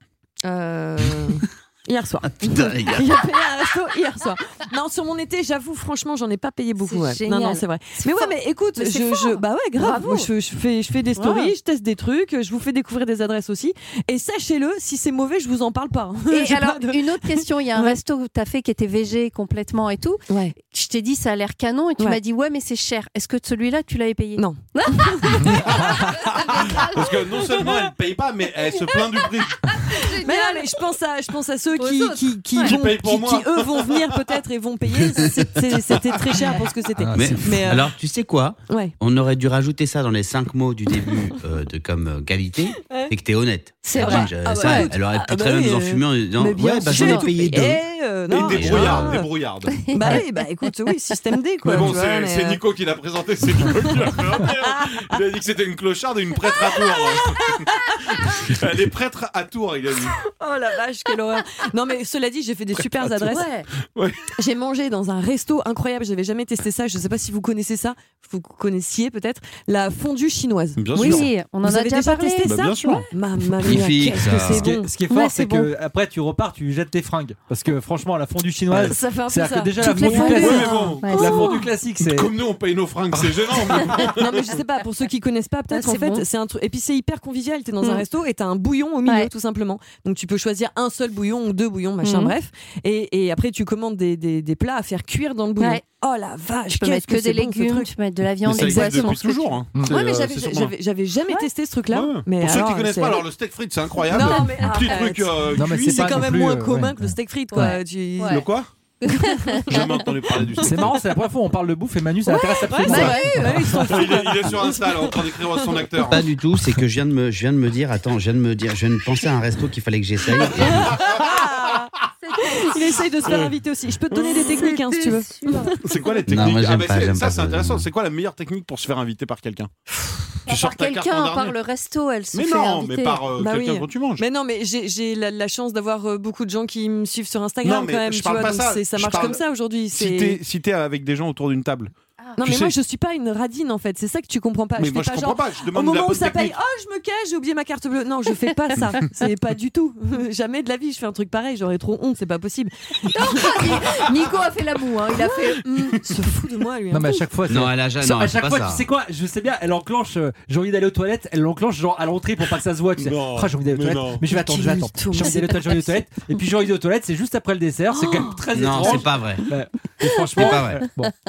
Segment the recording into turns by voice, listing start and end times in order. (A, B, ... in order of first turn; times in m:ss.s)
0:00.4-0:18.0 A
0:02.4-0:03.2 B
0:06.8-0:10.3 C
0:11.2-0:11.5 C
0:16.3-0:27.7 C
0:20.3-0:20.6 A
0:24.4-0:25.5 A
0:25.6-0:29.7 D
0:28.9-0:29.1 C
0:29.8-0:30.8 C
0:30.1-0:37.9 A
0:31.8-0:32.7 C
0:32.6-0:34.2 D
0:37.0-0:37.4 E
0:37.1-0:47.8 B
0:43.8-0:44.9 C
0:44.0-0:49.3 A
0:46.9-0:47.3 C
0:48.3-0:49.8 D
0:48.4-0:49.2 B
0:49.8-0:50.2 C
0:49.9-0:52.6 A
0:51.6-1:00.2 D
0:54.6-0:55.0 A
0:57.4-0:57.8 A
1:00.3-1:03.5 A
1:03.3-1:03.7 C
1:03.8-1:04.3 D
1:04.3-1:14.9 A
1:10.8-1:11.3 D
1:11.0-1:13.0 C
1:12.4-1:13.1 D
1:13.6-1:14.7 B
1:14.5-1:22.3 E
1:15.1-1:15.7 C
1:18.7-1:21.5 A
1:19.8-1:21.6 C
1:20.2-1:24.4 D
1:24.0-1:37.9 A
1:25.7-1:26.2 C
1:32.0-1:32.3 C
1:36.7-1:39.6 C
1:38.4-1:40.7 D
1:38.4-1:43.2 A
1:41.9-1:46.3 D
1:44.1-1:48.4 A
1:44.1-1:44.9 C
1:45.6-1:47.8 E
1:47.5-1:48.5 C
1:48.3-1:48.7 D
1:49.0-1:50.4 C
1:49.1-1:49.8 A
1:49.7-1:51.0 D
1:50.6-1:53.8 E
1:52.3-1:53.8 C
1:52.7-1:55.9 A
1:53.8-1:56.2 D
1:56.0-2:00.9 B
2:00.6-2:05.8 A
2:00.9-2:01.2 D
2:02.2-2:03.4 C
2:04.2-2:06.3 C
2:05.8-2:09.7 D
2:06.3-2:07.9 B
2:10.4-2:13.2 C
2:10.5-2:11.6 D
2:12.3-2:14.2 D
2:13.4-2:20.4 A
2:17.6-2:19.4 D
2:19.9-2:22.7 D
2:22.4-2:33.8 A
2:24.8-2:26.5 D
2:33.1-2:36.0 C
2:36.0-2:37.2 A
2:36.9-2:51.1 E
2:37.5-2:38.8 B
2:43.0-2:44.3 D
2:44.3-2:45.9 A
2:48.5-2:49.4 B
2:50.0-2:50.6 C
2:50.3-2:50.9 B